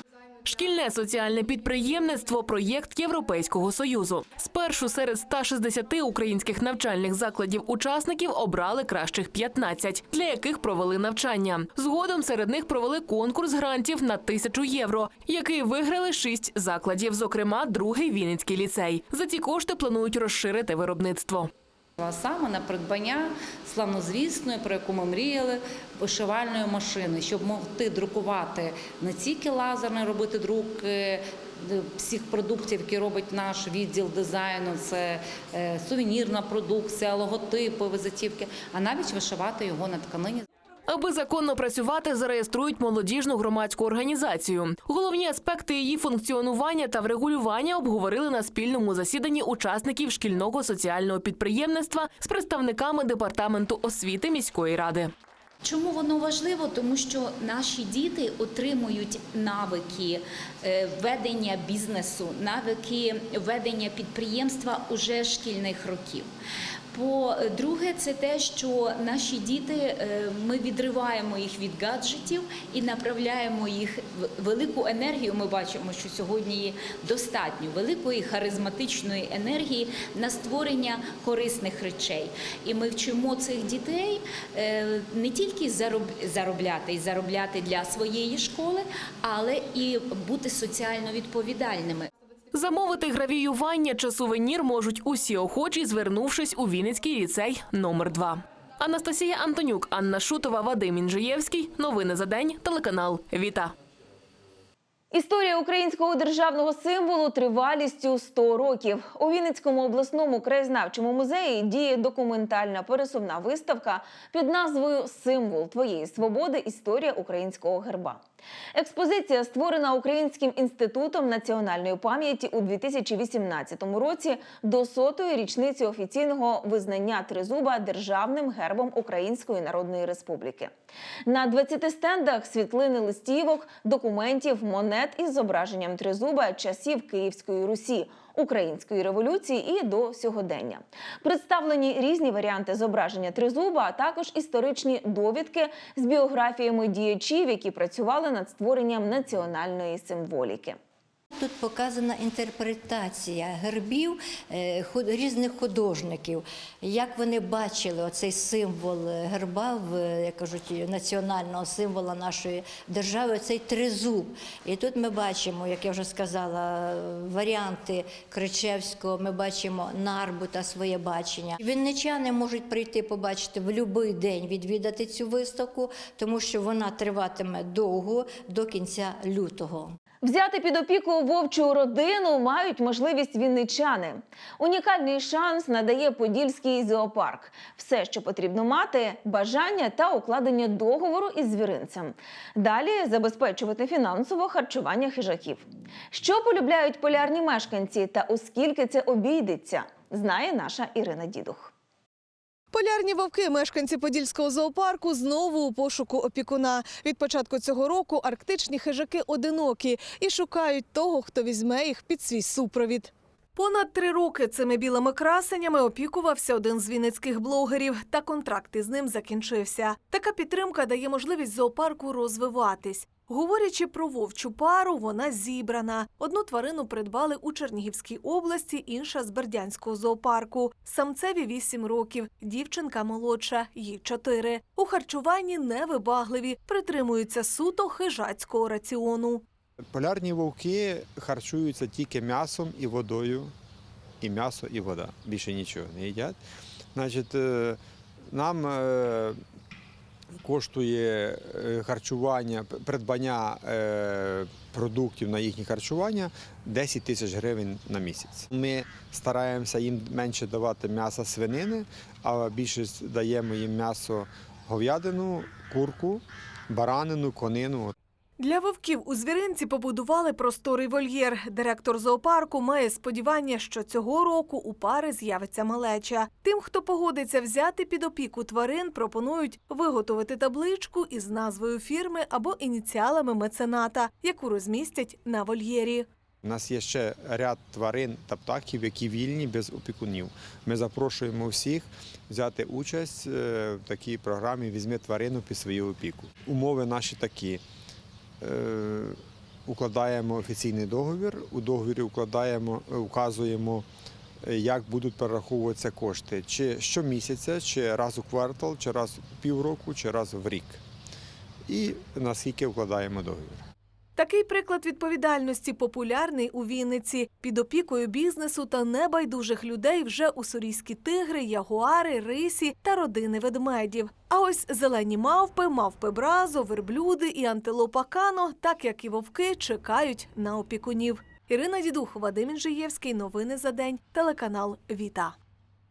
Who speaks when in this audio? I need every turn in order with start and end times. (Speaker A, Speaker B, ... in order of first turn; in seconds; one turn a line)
Speaker A: 0.4-21.5
Speaker B: 22.0-40.4
Speaker A: 40.9-55.1
Speaker C: 55.6-66.3
Speaker C: 66.9-92.1
Speaker A: 92.5-103.7
Speaker D: 105.1-118.2
Speaker D: 118.7-130.7
Speaker D: 131.2-150.8
Speaker E: 151.3-179.9
Speaker D: 180.2-201.7
Speaker F: 202.7-239.4
Speaker G: 239.9-243.5
Speaker G: 244.2-246.4
Speaker G: 246.9-249.4
Speaker G: 250.3-267.9
Speaker F: 268.4-286.1
Speaker G: 286.4-297.6
Speaker G: 298.4-303.9
Speaker G: 304.4-310.8
Speaker G: 311.6-313.6
Speaker F: 314.1-335.3